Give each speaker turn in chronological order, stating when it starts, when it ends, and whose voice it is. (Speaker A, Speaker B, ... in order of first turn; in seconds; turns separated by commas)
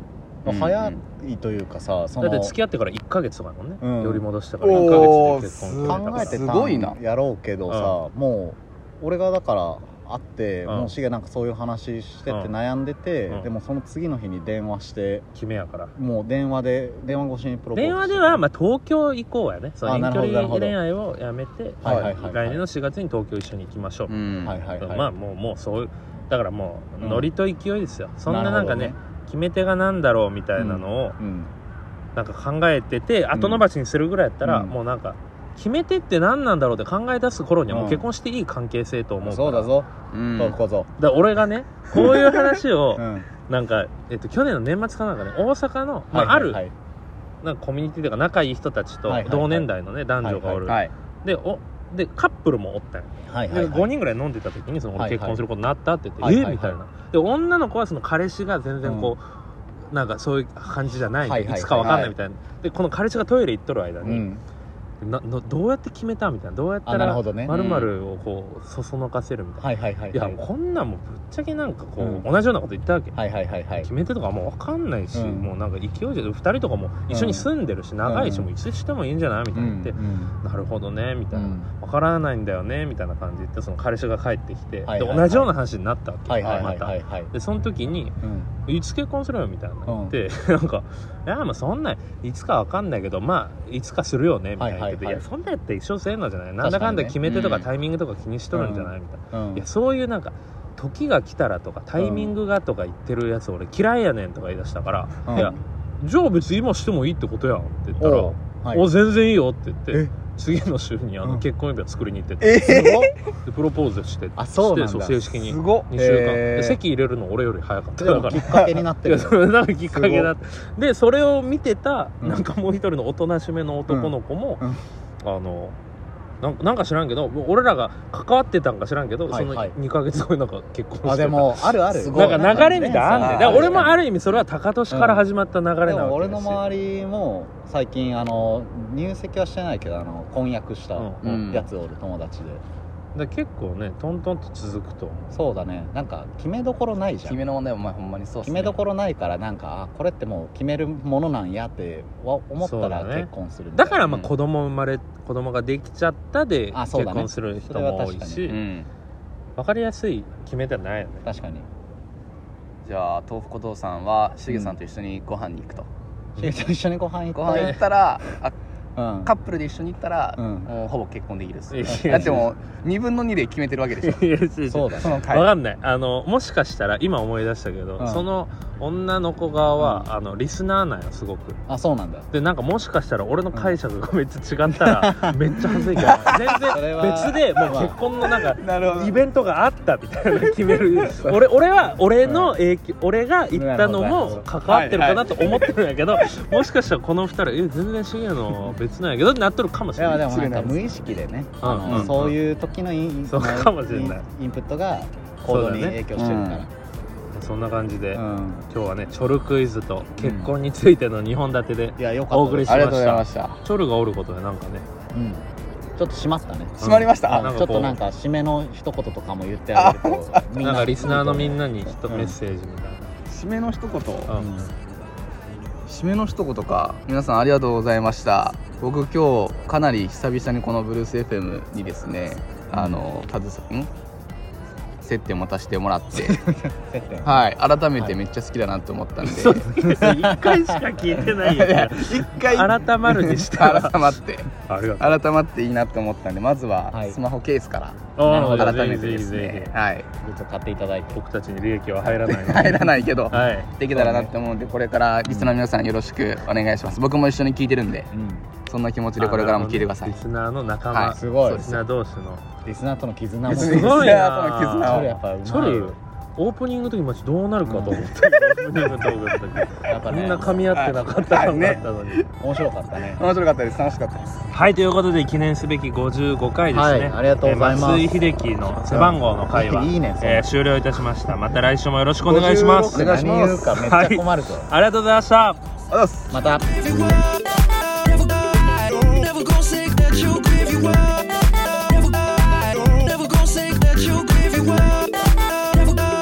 Speaker A: 0.4-1.0, Speaker B: 0.4-2.6, Speaker C: 2.2-6.4, Speaker B: 3.8-15.3, Speaker A: 4.6-7.0, Speaker C: 7.7-8.0, Speaker C: 10.7-10.9, Speaker C: 15.3-15.9, Speaker B: 15.9-18.4, Speaker C: 17.7-24.1, Speaker B: 19.8-20.8, Speaker B: 21.8-22.6, Speaker A: 21.8-22.1, Speaker A: 24.1-24.6, Speaker B: 24.4-25.1, Speaker C: 24.8-31.2, Speaker B: 27.0-27.3, Speaker B: 28.3-28.9, Speaker B: 30.6-31.5, Speaker C: 32.1-39.7, Speaker B: 33.3-33.6, Speaker B: 34.4-34.7, Speaker B: 37.7-38.1, Speaker B: 39.2-40.9, Speaker A: 40.1-40.5, Speaker C: 41.0-46.6, Speaker A: 42.0-42.5, Speaker B: 43.0-43.3, Speaker B: 46.1-46.7, Speaker C: 47.4-59.2, Speaker B: 49.0-49.7, Speaker B: 50.2-50.8, Speaker B: 53.2-53.9, Speaker B: 54.9-55.4, Speaker B: 56.2-56.8, Speaker B: 58.8-59.1, Speaker C: 59.9-64.2, Speaker B: 61.2-62.0, Speaker A: 61.8-62.1, Speaker B: 64.0-64.4, Speaker C: 65.0-73.2, Speaker B: 66.8-67.6, Speaker A: 67.5-67.9, Speaker B: 69.6-70.4, Speaker B: 72.0-72.2, Speaker B: 73.1-73.9, Speaker C: 73.8-124.6, Speaker B: 75.1-75.5, Speaker B: 77.1-77.5, Speaker B: 78.0-78.5, Speaker B: 79.5-80.3, Speaker B: 81.3-81.7, Speaker B: 84.8-85.5, Speaker B: 86.3-87.3, Speaker B: 88.2-88.5, Speaker B: 89.9-90.2, Speaker B: 94.6-95.2, Speaker B: 96.6-97.2, Speaker A: 97.2-97.7, Speaker B: 98.5-99.7, Speaker B: 102.0-102.3, Speaker B: 105.2-105.5, Speaker B: 108.0-108.9, Speaker A: 112.4-113.1, Speaker B: 112.6-113.1, Speaker B: 114.4-116.8, Speaker A: 115.5-115.9, Speaker B: 118.0-120.3, Speaker B: 123.9-124.8, Speaker C: 125.2-125.8, Speaker C: 126.4-136.6, Speaker B: 129.3-129.7, Speaker B: 131.0-134.0, Speaker A: 131.9-133.9, Speaker B: 134.9-135.2, Speaker B: 135.8-142.6, Speaker C: 140.9-141.3, Speaker A: 141.2-141.7, Speaker C: 143.1-145.2, Speaker B: 145.3-147.4, Speaker A: 147.3-148.7, Speaker B: 148.4-154.1, Speaker C: 152.6-158.6, Speaker B: 156.7-158.5, Speaker A: 158.5-158.9, Speaker C: 159.6-161.3, Speaker B: 161.2-161.7, Speaker A: 162.8-165.9, Speaker B: 166.4-167.8, Speaker A: 167.3-168.5, Speaker C: 167.5-167.8, Speaker B: 168.9-169.3, Speaker A: 169.2-174.2, Speaker B: 170.4-170.7, Speaker C: 171.7-172.4, Speaker B: 171.9-172.4, Speaker C: 174.0-181.6, Speaker B: 174.7-175.2, Speaker A: 175.0-175.5, Speaker B: 178.0-178.3, Speaker B: 179.8-180.1, Speaker B: 181.7-182.3, Speaker C: 182.3-200.3, Speaker B: 184.8-187.9, Speaker A: 186.1-186.4, Speaker A: 188.6-189.2, Speaker A: 191.1-191.3, Speaker B: 192.2-192.6, Speaker B: 193.5-194.4, Speaker A: 194.7-195.6, Speaker B: 200.0-206.7, Speaker A: 200.3-200.8, Speaker C: 201.6-202.3, Speaker A: 201.9-202.1, Speaker C: 203.3-204.2, Speaker C: 205.5-206.0, Speaker A: 206.2-206.6, Speaker C: 207.3-214.8, Speaker B: 208.1-208.7, Speaker B: 210.2-210.5, Speaker B: 212.0-213.0, Speaker A: 212.7-213.6, Speaker B: 215.1-221.6, Speaker A: 216.8-217.5, Speaker C: 216.8-218.0, Speaker A: 219.7-221.5, Speaker C: 220.6-223.1, Speaker A: 223.3-224.3, Speaker C: 224.3-224.7, Speaker B: 224.4-224.7, Speaker A: 225.9-233.9, Speaker B: 232.7-233.0, Speaker A: 235.0-236.4, Speaker B: 236.2-237.4, Speaker A: 237.2-239.7, Speaker C: 239.3-245.2, Speaker B: 239.8-240.9, Speaker A: 241.4-244.5, Speaker A: 245.0-250.1, Speaker B: 246.9-247.2, Speaker C: 248.2-249.7, Speaker B: 248.3-248.6, Speaker B: 250.2-251.2, Speaker C: 251.1-253.7, Speaker A: 252.4-258.1, Speaker B: 253.3-254.3, Speaker B: 255.3-255.5, Speaker B: 258.1-258.5, Speaker A: 258.7-260.1, Speaker C: 259.2-262.4, Speaker B: 261.1-261.9, Speaker B: 262.6-264.2, Speaker C: 263.5-272.2, Speaker A: 263.5-265.2, Speaker B: 264.8-265.9, Speaker B: 267.6-268.1, Speaker B: 269.9-270.7, Speaker A: 270.7-272.3, Speaker B: 272.4-273.2, Speaker A: 273.1-274.4, Speaker C: 274.5-285.6, Speaker B: 276.7-280.5, Speaker B: 282.2-284.7, Speaker A: 282.9-283.7, Speaker A: 285.9-286.3, Speaker B: 286.3-286.7, Speaker A: 289.0-291.3, Speaker A: 293.1-295.1